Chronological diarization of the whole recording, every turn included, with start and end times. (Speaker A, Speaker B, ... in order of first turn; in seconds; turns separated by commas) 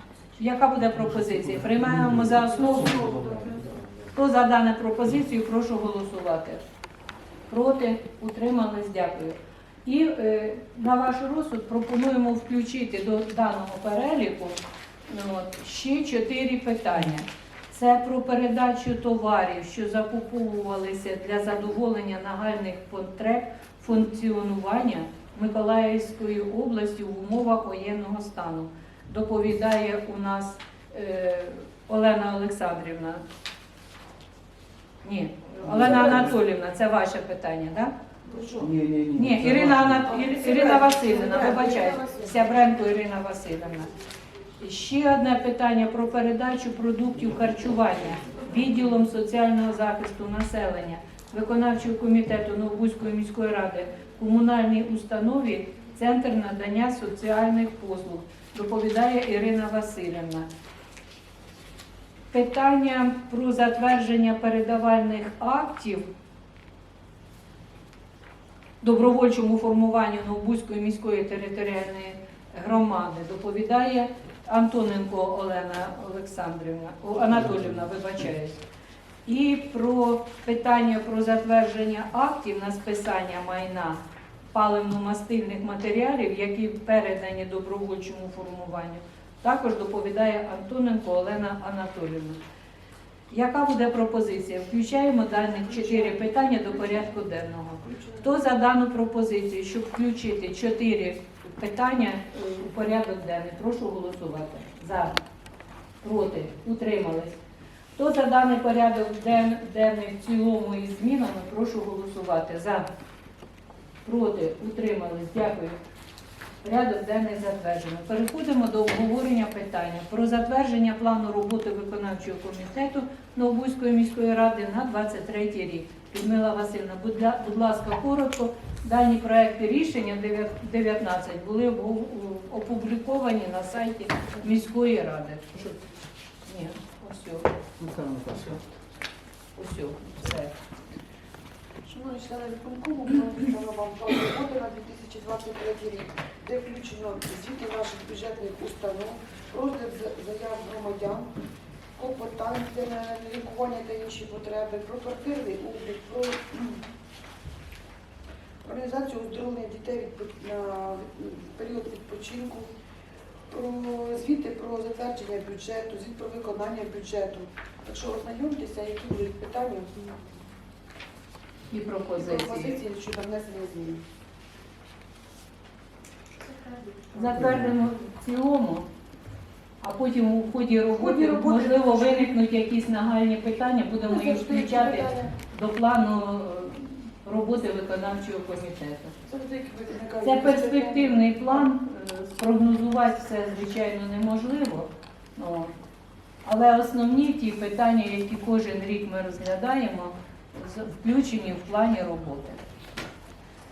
Speaker A: 0.4-3.1, Speaker B: 1.7-2.2, Speaker C: 2.5-3.8, Speaker B: 2.9-3.6, Speaker A: 4.1-6.6, Speaker A: 7.5-14.6, Speaker A: 15.1-33.2, Speaker A: 35.0-37.9, Speaker C: 38.2-38.8, Speaker B: 38.6-40.0, Speaker A: 39.1-43.9, Speaker C: 40.0-42.5, Speaker A: 44.6-60.5, Speaker A: 62.3-66.0, Speaker A: 68.8-78.6, Speaker A: 79.2-84.0, Speaker A: 84.5-92.4, Speaker A: 93.3-105.2, Speaker C: 95.7-97.2, Speaker C: 97.8-98.3, Speaker A: 106.0-107.4, Speaker A: 108.0-112.8, Speaker A: 114.0-115.8, Speaker A: 116.6-135.8, Speaker A: 136.4-137.5, Speaker B: 137.8-138.6, Speaker A: 139.6-140.5, Speaker C: 141.8-151.3, Speaker C: 152.0-156.5, Speaker C: 158.6-162.7, Speaker C: 163.5-170.2, Speaker A: 171.7-172.8, Speaker C: 172.2-174.0, Speaker A: 177.1-178.9, Speaker A: 179.8-189.1, Speaker C: 180.9-182.3, Speaker C: 184.0-185.3, Speaker C: 189.2-191.7, Speaker A: 190.2-195.7, Speaker A: 196.4-202.6